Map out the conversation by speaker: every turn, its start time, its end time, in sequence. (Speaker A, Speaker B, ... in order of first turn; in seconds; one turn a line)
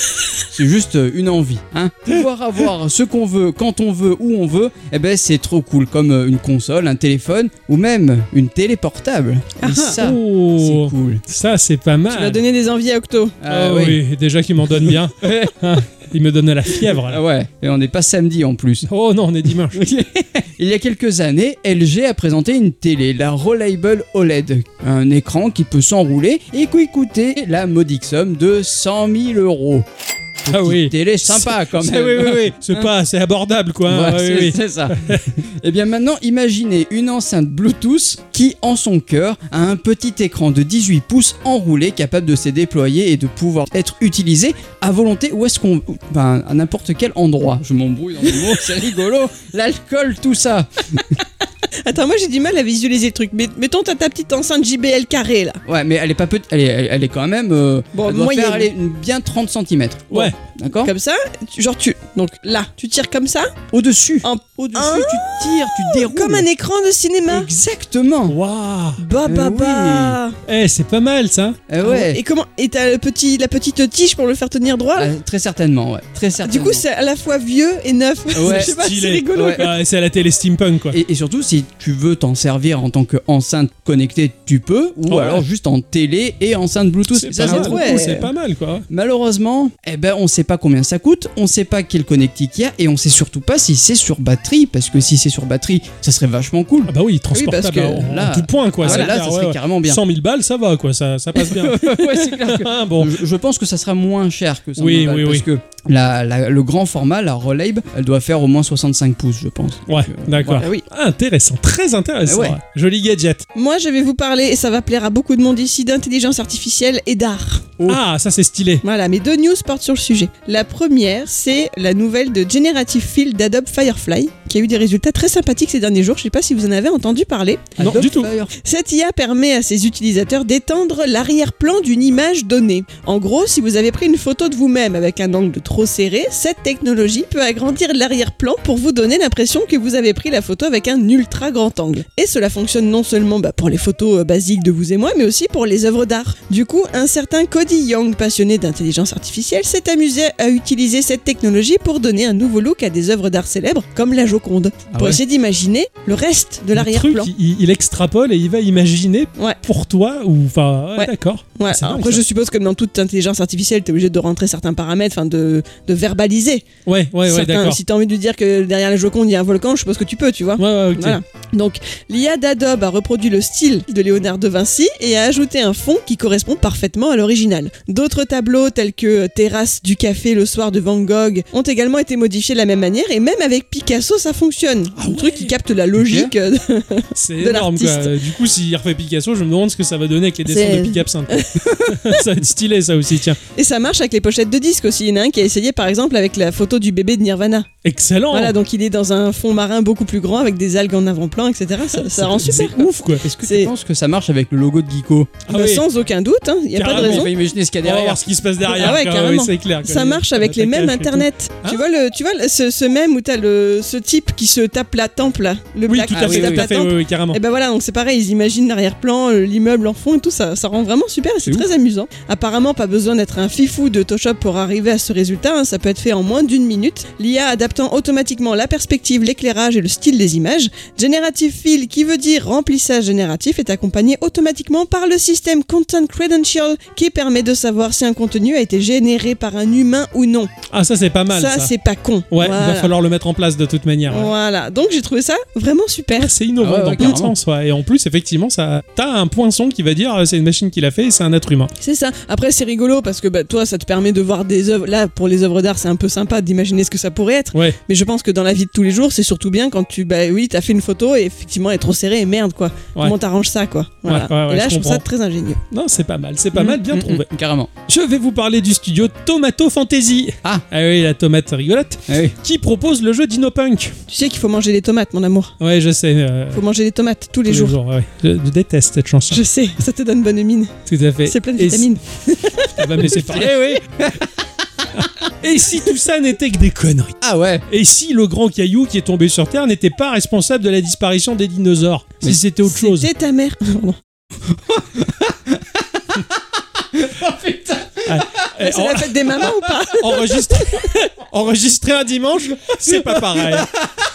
Speaker A: 0.5-11.2
Speaker B: 9.6-10.0
Speaker C: 10.0-12.4
Speaker B: 12.1-13.4
Speaker A: 13.4-14.0
Speaker C: 13.5-17.2
Speaker A: 14.8-15.6
Speaker A: 16.7-18.9
Speaker C: 18.9-19.8
Speaker A: 19.7-29.9
Speaker A: 30.4-32.9
Speaker C: 30.5-35.3
Speaker A: 33.9-51.0
Speaker B: 51.8-55.6
Speaker A: 55.6-60.9
Speaker B: 57.9-58.7
Speaker C: 60.1-60.4
Speaker B: 60.1-63.5
Speaker A: 63.7-66.5
Speaker B: 64.2-67.5
Speaker A: 67.3-68.4
Speaker C: 68.3-69.0
Speaker B: 69.0-70.4
Speaker A: 69.2-70.2
Speaker C: 70.5-71.6
Speaker A: 71.7-72.2
Speaker B: 71.8-75.1
Speaker A: 75.0-76.8
Speaker B: 76.4-79.7
Speaker A: 78.3-78.7
Speaker C: 78.3-81.0
Speaker A: 79.3-79.7
Speaker A: 80.9-88.0
Speaker C: 85.1-85.4
Speaker C: 87.1-88.8
Speaker B: 87.4-88.3
Speaker A: 88.9-100.0
Speaker C: 96.9-103.2
Speaker B: 98.8-99.2
Speaker A: 101.4-110.7
Speaker C: 104.8-105.4
Speaker C: 109.9-113.5
Speaker B: 110.5-110.8
Speaker A: 112.2-112.6
Speaker B: 113.5-117.7
Speaker C: 117.9-118.8
Speaker B: 118.8-128.0
Speaker A: 127.8-128.5
Speaker C: 127.8-128.3
Speaker B: 128.6-157.3
Speaker A: 154.9-155.2
Speaker C: 156.8-162.2
Speaker B: 161.0-166.6
Speaker C: 166.8-167.8
Speaker B: 167.2-188.1
Speaker C: 170.6-171.2
Speaker C: 184.9-185.5
Speaker A: 186.0-186.3
Speaker C: 187.1-193.4
Speaker B: 190.4-192.2
Speaker B: 193.5-197.7
Speaker C: 197.8-198.6
Speaker B: 198.3-202.9
Speaker C: 202.0-203.2
Speaker A: 203.2-205.4
Speaker B: 203.4-203.7
Speaker C: 205.4-205.8
Speaker B: 205.5-207.3
Speaker C: 206.8-207.3
Speaker A: 206.8-208.3
Speaker C: 207.8-211.8
Speaker B: 208.7-240.5
Speaker C: 215.9-217.4
Speaker A: 216.2-216.7
Speaker C: 240.7-241.7
Speaker B: 241.3-242.9
Speaker C: 242.3-244.3
Speaker B: 244.1-246.3
Speaker C: 246.2-251.7
Speaker A: 246.6-247.3
Speaker B: 251.8-265.6
Speaker C: 264.1-265.0
Speaker C: 265.7-267.3
Speaker A: 266.5-267.7
Speaker C: 267.9-274.0
Speaker A: 272.1-272.4
Speaker B: 274.1-275.5
Speaker C: 275.6-276.6
Speaker B: 276.5-277.7
Speaker C: 277.5-279.4
Speaker B: 279.3-280.7
Speaker C: 280.9-281.9
Speaker B: 281.2-283.2
Speaker C: 282.6-283.8
Speaker A: 283.0-284.3
Speaker C: 285.0-293.1
Speaker A: 287.2-287.6
Speaker B: 292.6-294.0
Speaker A: 294.4-296.2
Speaker A: 296.9-298.2
Speaker C: 298.1-303.7
Speaker B: 298.6-300.9
Speaker A: 302.8-303.9